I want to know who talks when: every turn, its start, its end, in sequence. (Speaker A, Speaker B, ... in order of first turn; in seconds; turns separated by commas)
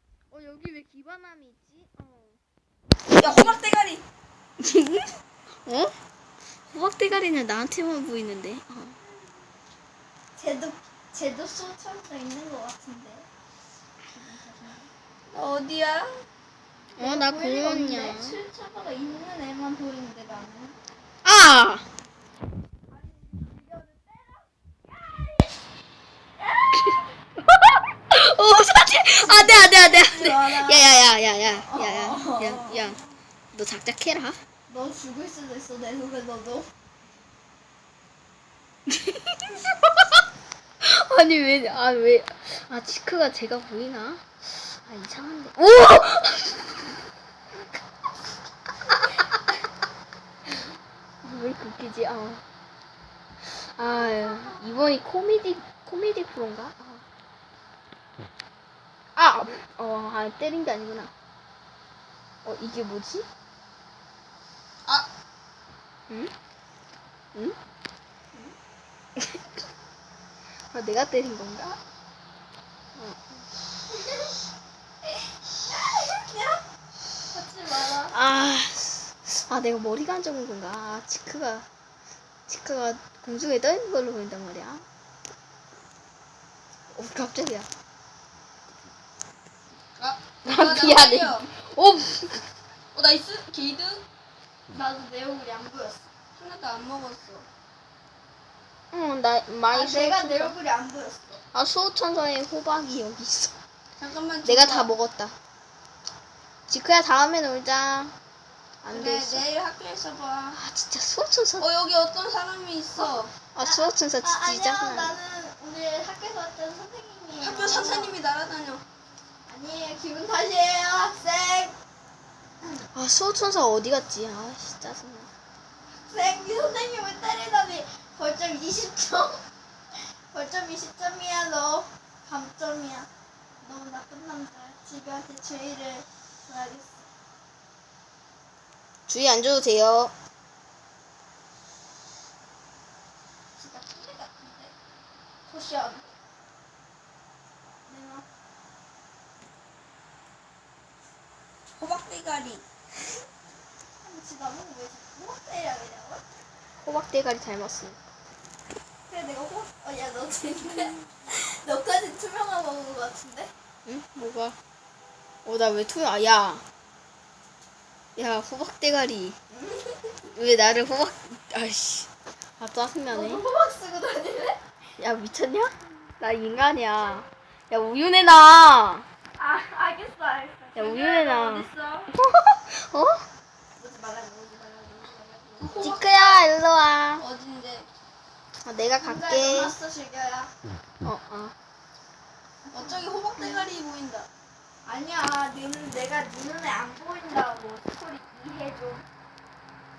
Speaker A: 0.3-2.4, Speaker B: 3.1-4.0, Speaker A: 3.2-3.6, Speaker A: 4.6-5.1, Speaker A: 5.7-5.9, Speaker A: 6.7-8.9, Speaker C: 9.0-9.4, Speaker C: 10.3-13.3, Speaker C: 14.1-14.9, Speaker B: 15.3-16.2, Speaker A: 16.9-18.4, Speaker C: 17.0-20.8, Speaker A: 21.2-21.8, Speaker C: 22.9-25.6, Speaker C: 26.5-26.9, Speaker A: 28.1-33.0, Speaker C: 29.1-33.0, Speaker A: 33.5-34.4, Speaker C: 34.7-36.7, Speaker A: 38.9-39.5, Speaker A: 40.8-46.8, Speaker A: 51.2-52.4, Speaker A: 53.4-57.0, Speaker C: 54.3-54.5, Speaker A: 59.1-61.1, Speaker A: 62.4-63.3, Speaker A: 70.7-71.8, Speaker A: 73.0-73.4, Speaker C: 75.5-76.6, Speaker C: 77.3-78.1, Speaker A: 78.1-81.7, Speaker A: 82.5-84.8, Speaker A: 86.9-87.7, Speaker B: 90.0-91.5, Speaker A: 90.4-92.4, Speaker B: 92.9-94.0, Speaker C: 94.7-96.0, Speaker B: 96.4-97.5, Speaker A: 98.9-100.5, Speaker C: 99.7-101.4, Speaker A: 101.5-103.5, Speaker B: 104.0-104.9, Speaker A: 104.4-105.3, Speaker A: 106.7-108.1, Speaker A: 108.8-109.5, Speaker B: 108.9-110.6, Speaker A: 110.5-111.7, Speaker B: 111.6-113.3, Speaker A: 113.5-115.2, Speaker C: 113.6-118.2, Speaker B: 117.4-118.8, Speaker C: 119.5-121.8, Speaker A: 122.9-125.3, Speaker C: 126.1-129.4, Speaker C: 129.9-133.1, Speaker C: 133.6-137.1, Speaker A: 139.1-140.1, Speaker C: 143.6-144.7, Speaker C: 145.4-146.1, Speaker C: 147.8-148.2, Speaker B: 151.8-152.6, Speaker C: 154.0-156.2, Speaker A: 156.8-157.9, Speaker C: 159.1-163.5, Speaker A: 163.8-164.6, Speaker A: 165.4-166.6, Speaker A: 168.2-169.4, Speaker C: 169.5-170.1, Speaker A: 170.3-172.1, Speaker A: 172.6-173.4, Speaker C: 173.1-174.6, Speaker A: 175.0-179.1, Speaker C: 179.3-182.1, Speaker A: 180.8-183.2, Speaker C: 183.8-185.9, Speaker B: 185.6-186.3, Speaker A: 185.8-187.2, Speaker B: 187.2-187.9, Speaker A: 188.6-189.7, Speaker C: 189.0-190.5, Speaker A: 191.0-191.5, Speaker C: 192.7-193.6, Speaker B: 192.7-194.3, Speaker C: 194.8-199.0